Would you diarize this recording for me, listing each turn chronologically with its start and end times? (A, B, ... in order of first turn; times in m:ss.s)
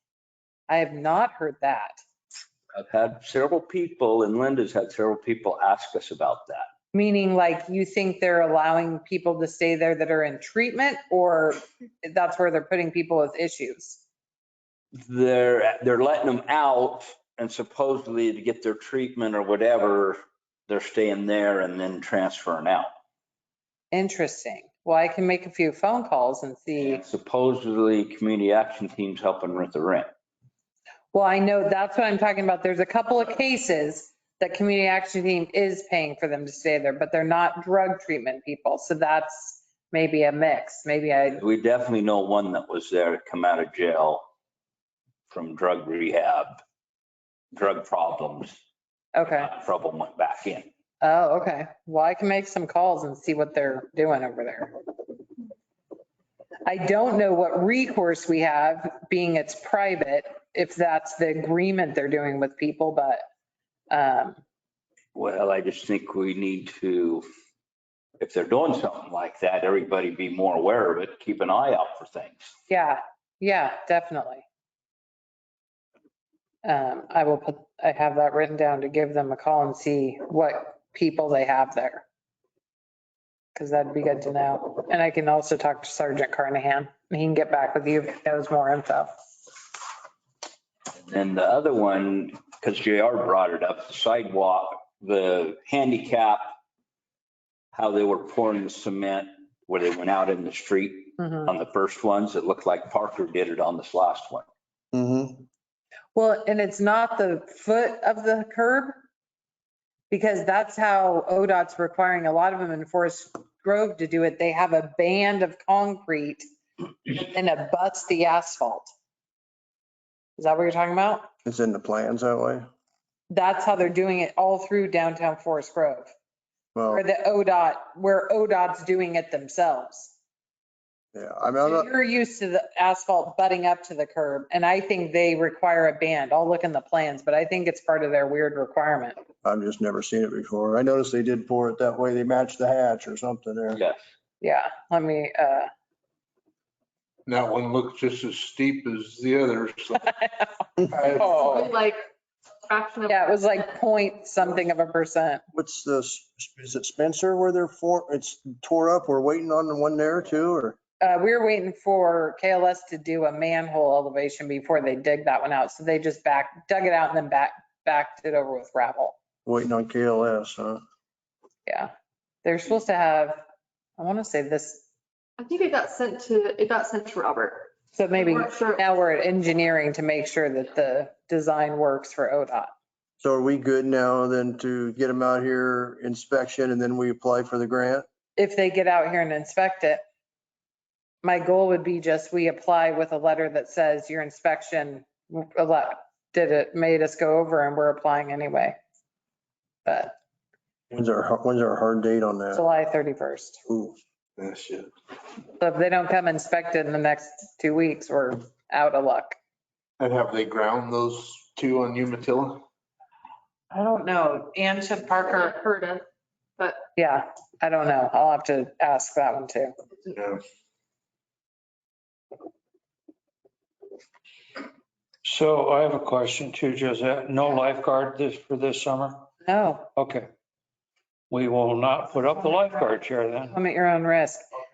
0:00.7-0:02.0 A
0:02.8-0:06.6 B
0:06.9-0:14.0 A
0:15.0-0:22.9 B
0:23.9-0:27.0 A
0:26.8-0:30.1 B
0:31.1-0:41.4 A
0:41.4-0:44.2 B
0:45.3-0:46.6 B
0:47.5-0:48.5 B
0:49.1-0:49.5 A
0:49.3-0:50.7 B
0:51.0-0:54.8 A
0:56.6-1:03.2 A
1:03.9-1:04.4 A
1:05.1-1:07.2 B
1:08.2-1:12.5 B
1:12.7-1:14.4 A
1:16.6-1:22.0 A
1:23.5-1:29.1 A
1:31.0-1:36.4 B
1:37.7-1:44.4 B
1:44.9-1:45.4 C
1:46.1-1:49.0 A
1:50.1-1:56.4 A
1:57.1-1:58.9 A
2:00.4-2:01.2 A
2:01.4-2:02.7 C
2:03.3-2:06.1 A
2:06.7-2:07.0 C
2:06.9-2:10.1 A
2:11.1-2:11.9 C
2:11.6-2:19.2 A
2:19.4-2:23.8 C
2:23.7-2:24.0 B
2:24.4-2:25.7 A
2:27.2-2:30.1 D
2:30.2-2:30.5 A
2:30.9-2:31.3 D
2:31.2-2:32.0 E
2:31.2-2:31.7 A
2:32.7-2:33.6 E
2:33.1-2:35.4 A
2:35.5-2:40.8 C
2:41.0-2:49.1 A
2:49.4-2:50.8 C
2:51.6-2:51.9 A
2:52.4-2:53.4 A
2:54.0-2:54.8 A
2:55.4-2:58.8 E
2:57.9-3:02.7 A
3:03.2-3:08.0 C
3:08.4-3:10.0 A
3:11.2-3:18.8 A
3:19.8-3:20.1 A
3:20.9-3:22.6 C
3:22.5-3:23.6 A
3:23.7-3:24.0 C
3:24.4-3:24.9 D
3:25.6-3:29.3 A
3:30.0-3:32.6 D
3:33.7-3:35.5 A
3:35.2-3:36.0 E
3:36.9-3:39.7 A
3:40.1-3:40.4 D
3:45.2-3:49.2 F
3:49.4-3:49.9 A
3:50.0-3:50.3 F
3:51.3-3:53.5 F
3:53.5-3:54.4 A